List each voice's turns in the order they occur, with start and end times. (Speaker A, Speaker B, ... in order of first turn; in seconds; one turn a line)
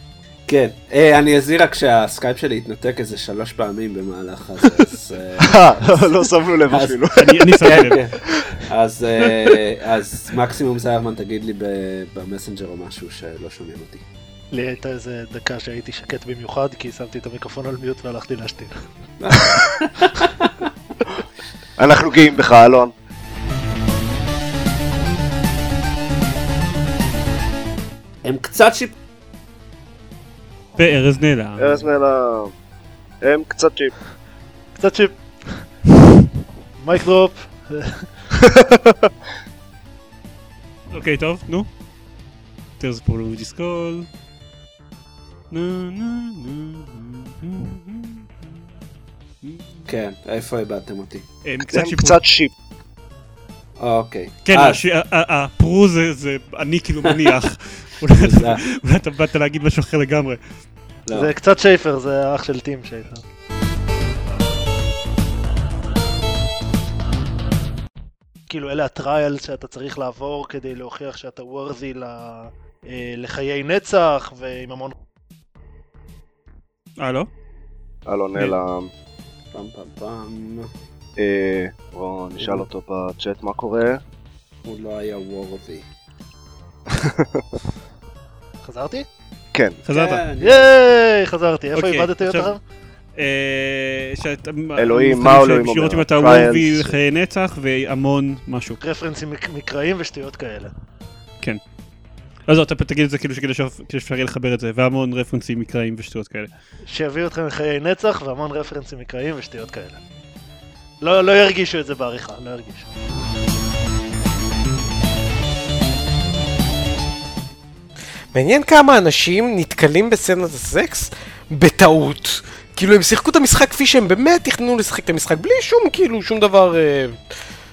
Speaker A: 0.5-6.0
Speaker B: 5.4-7.9
Speaker A: 6.7-7.0
Speaker C: 7.2-8.0
Speaker A: 7.6-14.0
Speaker D: 14.5-19.6
Speaker A: 19.2-20.5
Speaker B: 21.8-22.9
Speaker A: 28.2-28.9
Speaker C: 30.8-31.9
Speaker B: 31.6-32.5
Speaker B: 33.2-34.0
Speaker D: 34.8-35.6
Speaker D: 36.8-38.1
Speaker C: 40.9-41.7
Speaker C: 42.8-44.1
Speaker C: 45.5-48.6
Speaker C: 49.4-49.9
Speaker A: 49.9-51.3
Speaker C: 51.5-52.2
Speaker B: 51.6-52.5
Speaker A: 53.8-54.8
Speaker C: 54.5-60.4
Speaker A: 58.2-58.6
Speaker A: 61.1-61.3
Speaker D: 61.1-63.2
Speaker D: 68.5-75.0
Speaker C: 77.0-77.3
Speaker B: 78.1-78.9
Speaker A: 79.5-80.7
Speaker B: 81.2-84.0
Speaker A: 82.4-82.7
Speaker A: 84.7-85.8
Speaker B: 86.9-87.4
Speaker D: 88.6-89.1
Speaker B: 89.5-89.8
Speaker C: 89.8-90.2
Speaker A: 89.9-90.7
Speaker D: 90.4-92.6
Speaker C: 91.7-92.6
Speaker C: 93.2-98.8
Speaker B: 94.8-97.0
Speaker D: 98.8-100.7
Speaker C: 102.5-106.5
Speaker D: 106.9-110.0
Speaker D: 111.0-112.9
Speaker E: 118.3-127.3